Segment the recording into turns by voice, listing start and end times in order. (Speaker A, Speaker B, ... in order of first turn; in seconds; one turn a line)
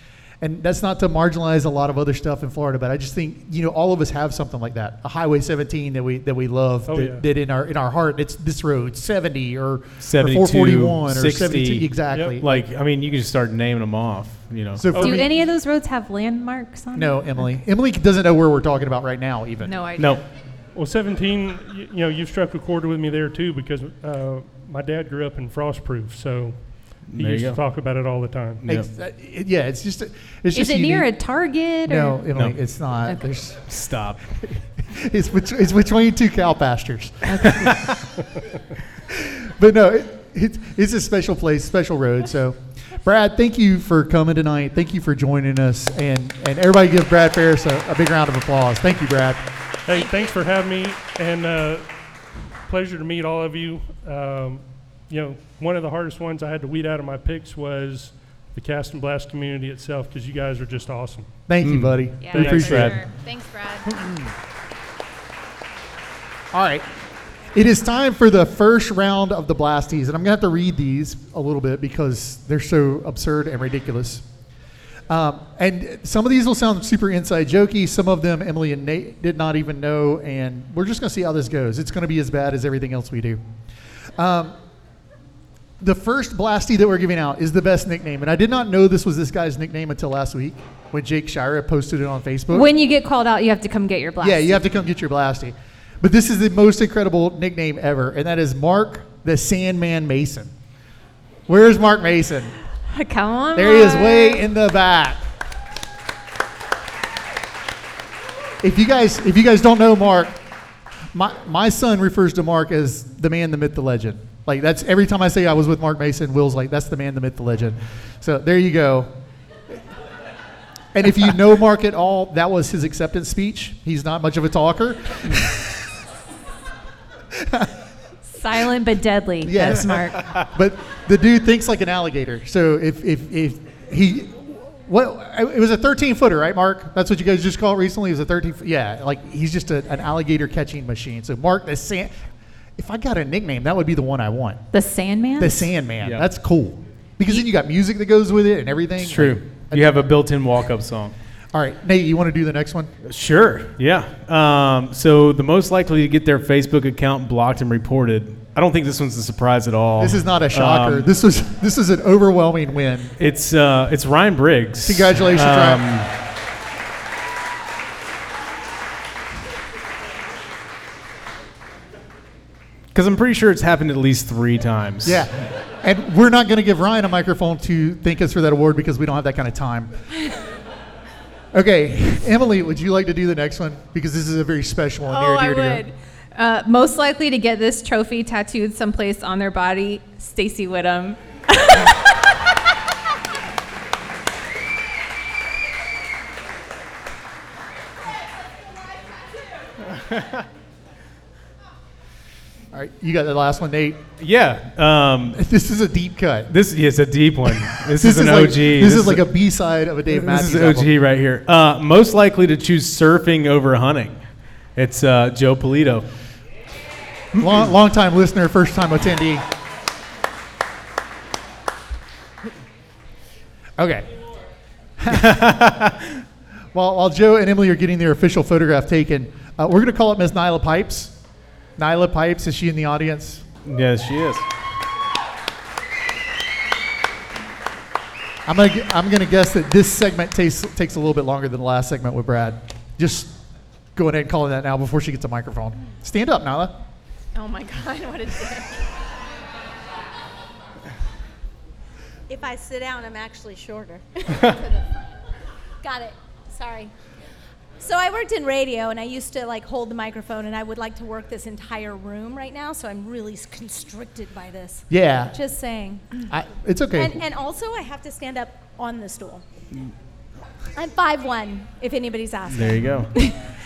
Speaker A: 0.4-12.6
Speaker B: 6.9-7.2
Speaker C: 10.0-14.9
Speaker B: 12.1-12.4
Speaker A: 14.8-15.3
Speaker B: 14.9-15.2
Speaker D: 14.9-17.5
Speaker A: 16.9-19.8
Speaker D: 19.6-20.2
Speaker C: 20.0-20.2
Speaker B: 20.7-28.6
Speaker C: 27.1-27.6
Speaker A: 28.7-31.1
Speaker D: 30.5-32.2
Speaker A: 31.9-33.7
Speaker C: 33.7-34.2
Speaker A: 34.4-37.8
Speaker D: 37.3-37.6
Speaker C: 37.5-38.0
Speaker A: 39.1-49.5
Speaker B: 49.9-51.9
Speaker B: 52.7-61.3
Speaker A: 61.5-63.0
Speaker C: 61.6-63.0
Speaker D: 62.2-64.0
Speaker A: 66.5-66.8
Speaker A: 67.5-74.2
Speaker A: 75.1-83.4
Speaker A: 84.2-84.5
Speaker A: 85.8-92.7
Speaker D: 92.5-94.6
Speaker A: 94.2-100.5
Speaker A: 101.5-102.5
Speaker D: 102.9-104.5
Speaker A: 103.5-105.2
Speaker A: 108.6-110.4
Speaker A: 111.1-119.1
Speaker A: 120.9-125.7
Speaker A: 127.3-127.7
Speaker D: 128.3-130.2
Speaker A: 129.4-142.1
Speaker A: 142.8-144.6
Speaker D: 144.7-145.7
Speaker A: 145.4-150.0
Speaker C: 149.0-151.1
Speaker A: 151.5-152.9
Speaker C: 153.0-161.1
Speaker A: 160.0-163.1
Speaker C: 163.2-166.1
Speaker A: 164.8-165.8
Speaker C: 172.9-175.3
Speaker A: 175.0-179.9
Speaker A: 181.5-185.8
Speaker D: 185.1-192.1
Speaker C: 200.0-200.4
Speaker A: 202.7-204.0
Speaker C: 204.2-205.4
Speaker A: 205.3-206.5
Speaker C: 206.5-209.3
Speaker A: 207.5-210.9
Speaker C: 210.2-214.2
Speaker C: 214.8-216.1
Speaker A: 217.3-219.4
Speaker A: 223.8-224.1
Speaker A: 225.0-225.6
Speaker C: 225.1-226.2
Speaker A: 226.7-231.1
Speaker A: 231.8-233.4
Speaker C: 233.6-234.4
Speaker A: 238.4-243.3
Speaker A: 243.9-246.7
Speaker E: 247.3-249.0
Speaker E: 252.3-255.1
Speaker E: 255.8-256.9
Speaker E: 257.8-266.2
Speaker A: 264.9-265.3
Speaker A: 266.3-267.2
Speaker E: 266.9-269.4
Speaker E: 270.8-273.3
Speaker C: 272.5-273.1